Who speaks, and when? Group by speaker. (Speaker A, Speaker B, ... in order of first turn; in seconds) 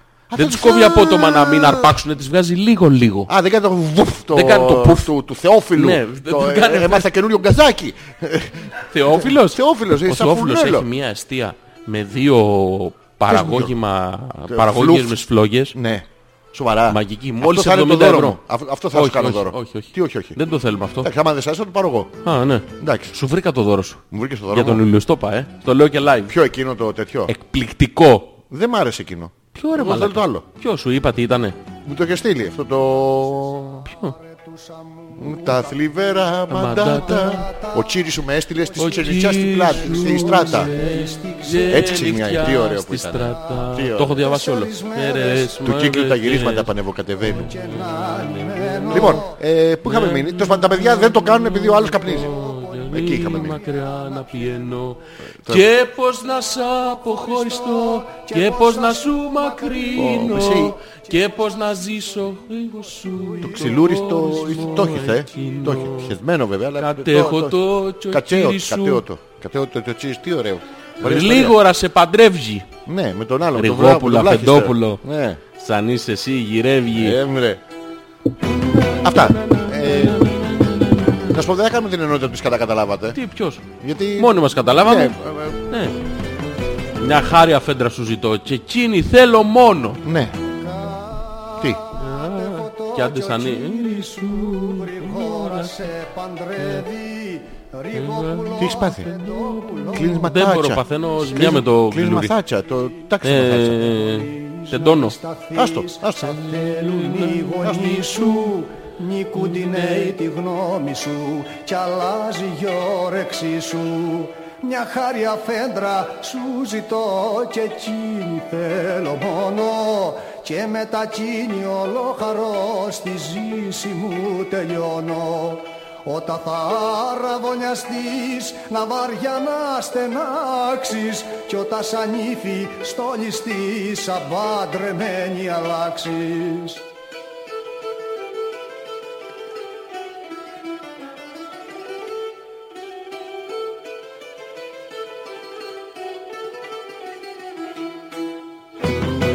Speaker A: 0.3-1.9, 3.3-10.9, 13.3-13.7, 14.5-15.2, 15.7-20.4, 21.0-22.1, 22.8-23.1, 24.1-24.8, 26.3-27.3, 28.5-30.4, 31.8-33.9, 35.2-40.7, 41.7-44.2, 45.6-47.5, 48.9-52.3, 52.9-53.6, 55.4-55.7, 60.0-60.8, 63.4-71.6, 72.8-75.4, 76.9-77.6, 79.0-80.3, 81.3-83.2, 83.8-85.6, 90.0-90.4, 98.6-99.1, 99.9-100.8, 101.3-103.9, 105.5-106.5, 107.6-108.1
Speaker B: 0.3-3.3, 4.3-5.1, 5.7-7.1, 8.9-15.8, 16.9-18.4, 18.9-21.1, 22.2-26.3, 27.3-28.4, 29.5-31.6, 33.9-34.1, 36.5-37.5, 38.8-46.7, 47.3-49.2, 49.9-66.2, 66.8-69.0, 71.0-72.7, 73.5-75.0, 75.5-77.2, 79.0-81.3, 83.1-83.6, 84.2-85.2, 85.7-86.0, 87.0-90.0, 92.0-95.9, 96.6-96.8, 97.9-102.3, 103.2-105.2, 106.5-108.5, 109.4-110.1
Speaker C: 34.0-37.9, 38.9-42.1, 44.2-45.6, 47.4-49.3, 52.2-52.9, 53.7-54.2, 57.0-60.3, 90.6-100.3, 103.9-136.8